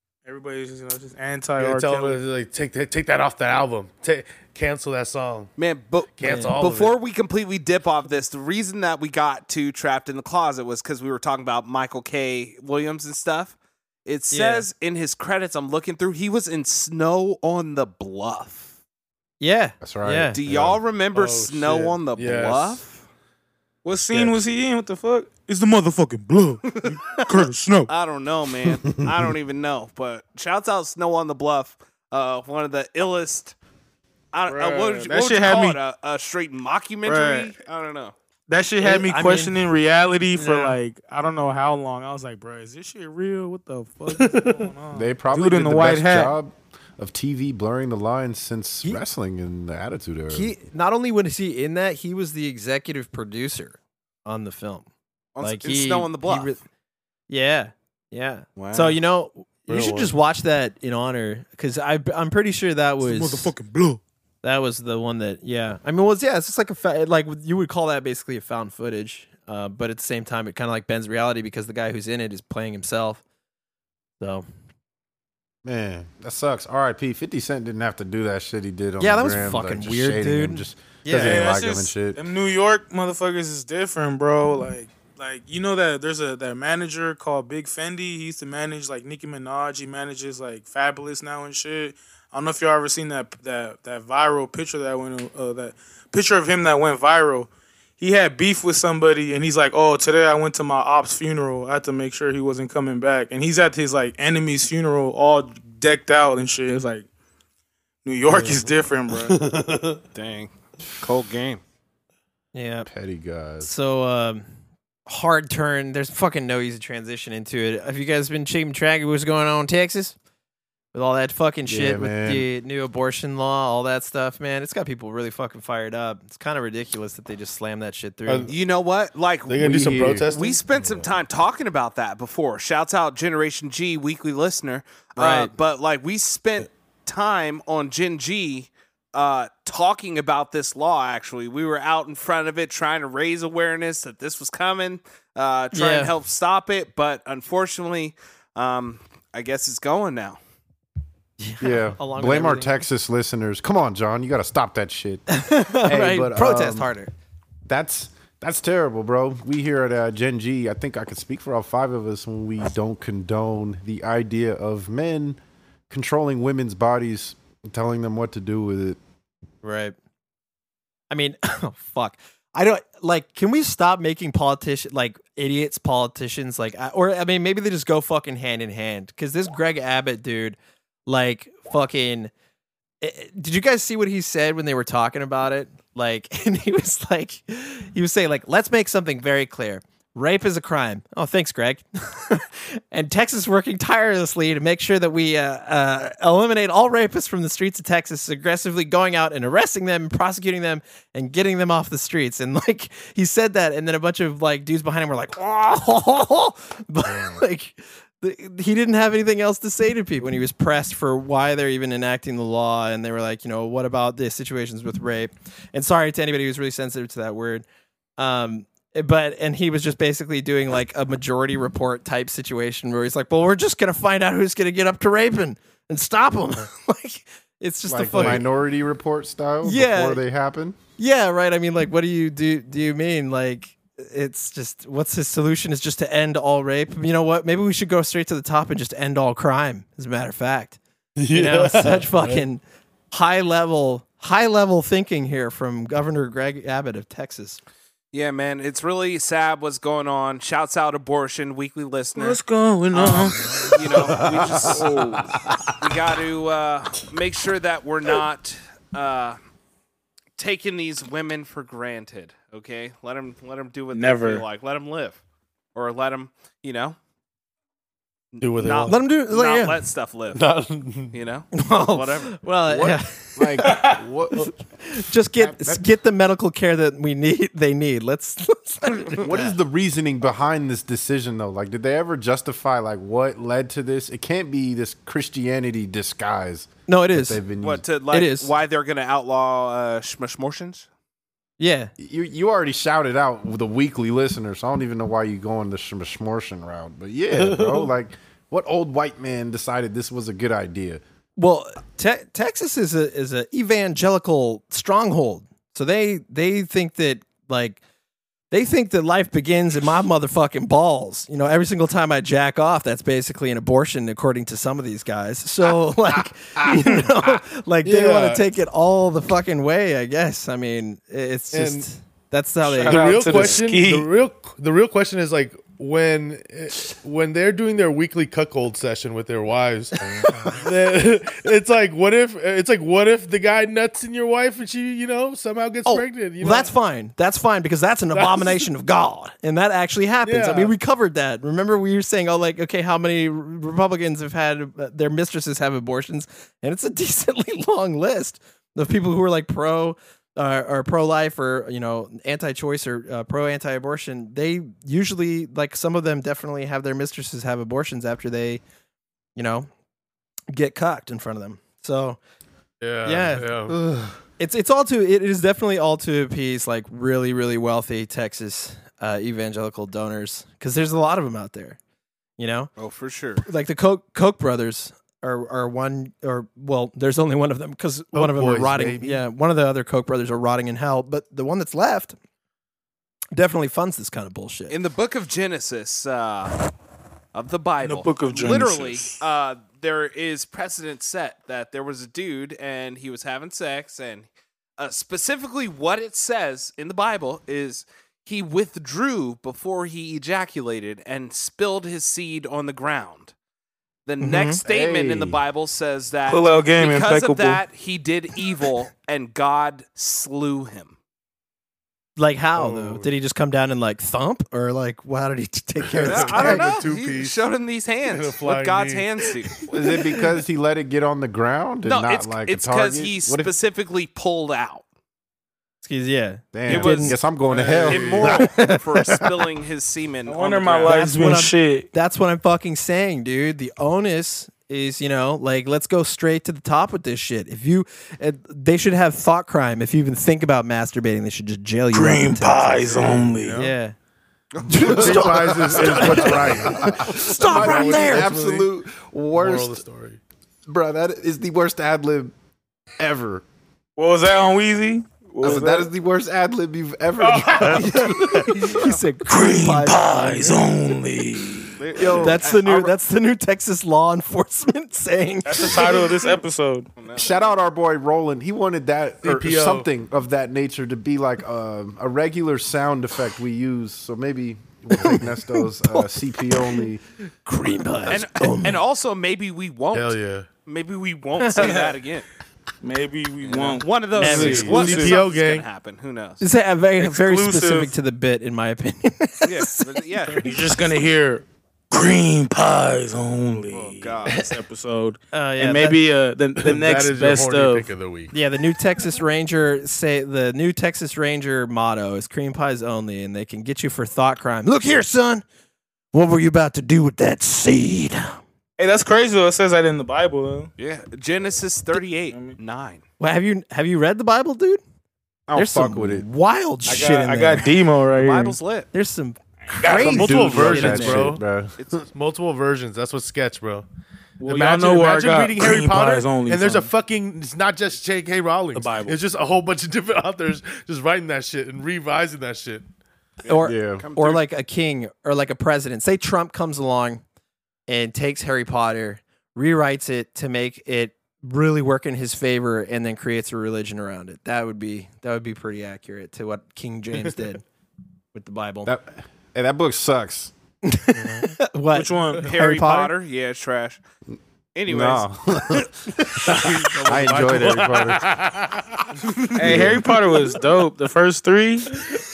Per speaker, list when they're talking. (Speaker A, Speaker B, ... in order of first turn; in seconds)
Speaker A: 0.2-2.2, 23.8-27.9, 34.5-35.8, 37.1-37.5, 38.5-46.4, 63.0-64.0, 81.2-107.1, 108.0-109.3, 252.2-255.3, 263.9-264.4, 273.6-274.0, 322.7-324.1, 387.8-389.2, 406.3-407.6, 430.3-431.9, 441.9-443.6, 454.0-455.9, 457.2-457.9, 459.3-461.9, 465.5-466.9, 481.6-481.9, 482.8-485.2, 487.0-487.9, 490.3-497.9, 508.8-510.7, 512.3-512.6, 516.9-518.6, 519.8-520.2, 524.4-526.9, 528.8-529.2, 551.9-552.5, 559.5-562.0
Speaker B: 1.6-5.5, 6.2-6.9, 21.1-22.8, 24.1-24.4, 44.1-44.7, 59.7-60.1, 108.3-110.0, 128.3-128.5, 129.5-131.0, 207.1-207.3, 228.1-228.4, 241.2-242.4, 268.4-269.0, 270.3-271.1, 297.3-297.9, 316.6-317.0, 317.9-318.5, 321.5-321.9, 322.8-336.7, 338.1-338.6, 340.2-340.7, 362.8-363.8, 378.1-379.2, 412.6-413.1, 415.9-417.4, 418.1-419.1, 427.5-428.5, 442.9-443.7, 444.8-448.7, 449.3-450.2, 469.2-469.9, 479.9-480.5, 484.2-485.6, 496.6-498.3, 519.9-521.4, 522.0-523.9, 524.4-532.9, 556.5-558.8, 559.4-559.9
Speaker C: 5.6-18.7, 20.3-23.0, 26.7-33.6, 34.3-38.1, 55.4-56.5, 58.6-59.0, 110.2-111.6, 128.5-150.4, 248.1-252.4, 252.9-254.9, 255.8-259.4, 260.4-265.2, 265.8-267.0, 268.3-270.4, 271.1-272.4, 287.6-290.9, 372.8-373.4, 384.7-386.6, 387.3-403.3, 404.1-411.0, 416.0-419.5, 421.9-424.9, 426.7-427.2, 427.9-431.0, 444.5-445.3, 458.7-459.0, 461.8-462.9, 467.0-467.5, 478.1-482.3, 483.4-486.4, 489.4-490.5, 493.7-494.5, 510.8-513.0, 518.1-518.9, 533.4-534.4, 552.4-554.0, 554.8-555.3, 556.9-557.6, 559.6-560.0
Speaker D: 6.2-6.6, 14.3-14.7, 19.4-20.4, 38.8-39.6, 40.4-40.8, 50.3-54.9, 55.4-56.6, 57.3-63.5, 64.4-73.2, 74.2-74.5, 79.0-81.5, 112.5-112.9, 113.6-114.5, 115.1-120.2, 120.9-128.5, 135.2-135.5, 145.7-146.1, 151.4-152.8, 155.3-157.1, 169.6-169.9, 171.1-182.3, 183.0-217.7, 218.2-228.4, 229.6-230.2, 231.0-240.8, 241.3-247.6, 268.9-269.8, 271.5-273.7, 274.8-279.4, 286.9-287.4, 288.1-288.5, 291.6-291.9, 301.4-307.8, 308.5-323.6, 330.0-330.6, 335.9-358.6, 359.4-359.7, 360.5-362.2, 363.0-363.5, 364.4-371.8, 372.4-372.7, 373.4-382.2, 383.3-384.8, 404.2-404.6, 412.2-416.7, 425.8-427.2, 428.3-429.3, 430.9-443.9, 444.7-448.3, 457.6-460.6, 462.0-466.1, 475.0-476.9, 477.4-478.8, 484.2-484.9, 486.4-490.4, 495.3-496.0, 498.3-505.4, 506.1-508.4, 513.2-514.8, 515.5-517.7, 518.9-521.4, 533.5-537.2, 537.9-547.6, 548.3-548.9, 550.9-553.1
Speaker E: 19.8-20.8, 44.9-50.5, 75.7-82.2, 112.9-113.7, 121.7-122.5, 129.6-130.3, 151.6-155.2, 155.8-156.9, 157.7-165.4, 165.9-169.0, 227.9-230.8, 254.2-254.9, 272.7-274.5, 275.4-275.8, 279.2-287.8, 292.0-301.0, 404.6-405.4, 419.7-423.5, 426.5-428.5, 444.7-449.8, 450.7-452.3, 453.0-453.4, 455.4-458.6, 462.0-462.4, 467.2-477.0, 515.5-516.3, 519.9-521.8, 533.6-534.1, 548.9-550.5, 554.9-558.3, 559.6-560.0